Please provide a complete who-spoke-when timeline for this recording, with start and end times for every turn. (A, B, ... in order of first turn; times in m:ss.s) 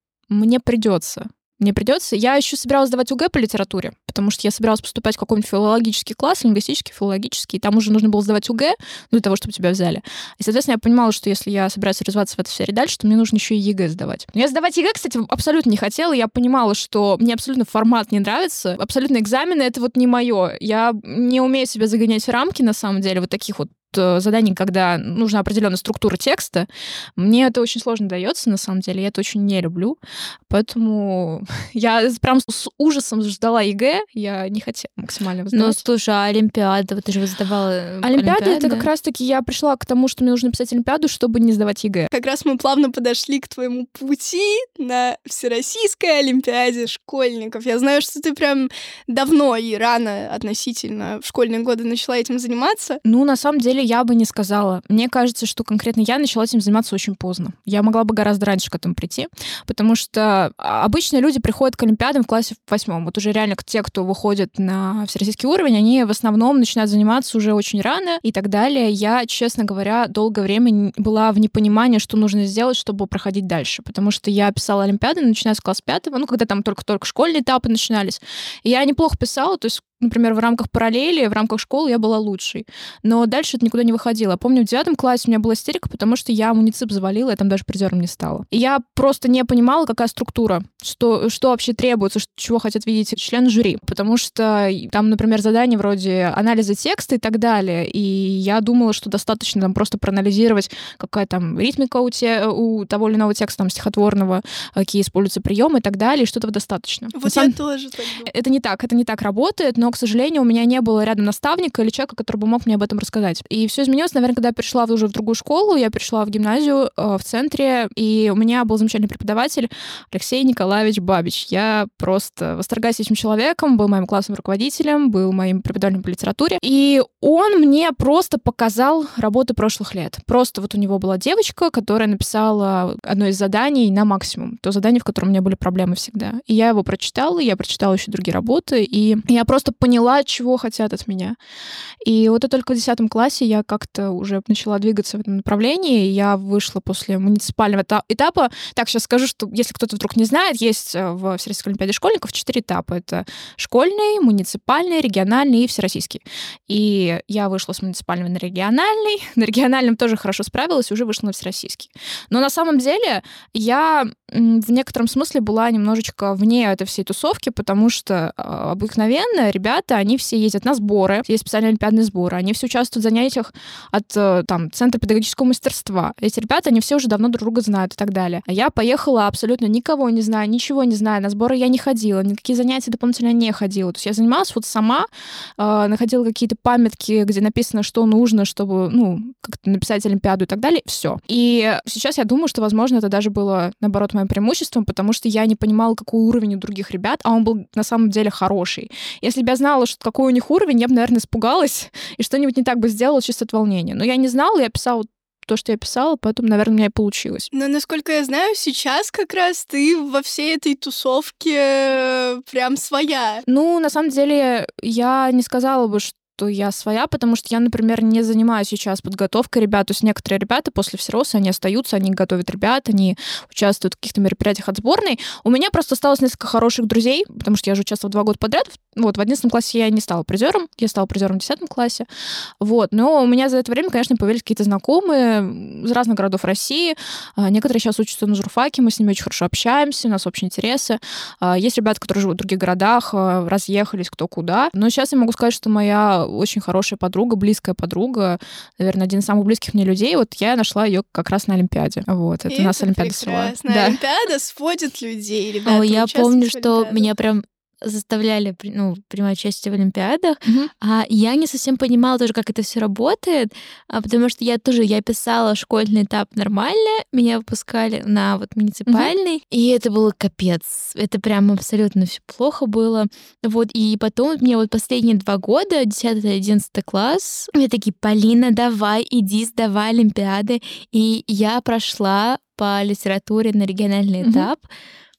0:00.3-0:35.8 A
0:35.5-0:38.9 B
0:38.0-0:42.1 A
0:42.1-0:53.0 C
0:53.0-1:47.6 A
1:47.1-1:48.3 C
1:48.2-2:21.4 A
2:22.0-3:27.5 A
3:27.5-3:33.4 C
3:33.5-3:52.0 A
3:52.6-4:14.0 A
4:12.5-4:17.0 C
4:15.6-4:44.7 B
4:20.4-4:20.7 A
4:28.9-4:29.1 A
4:44.2-4:44.5 A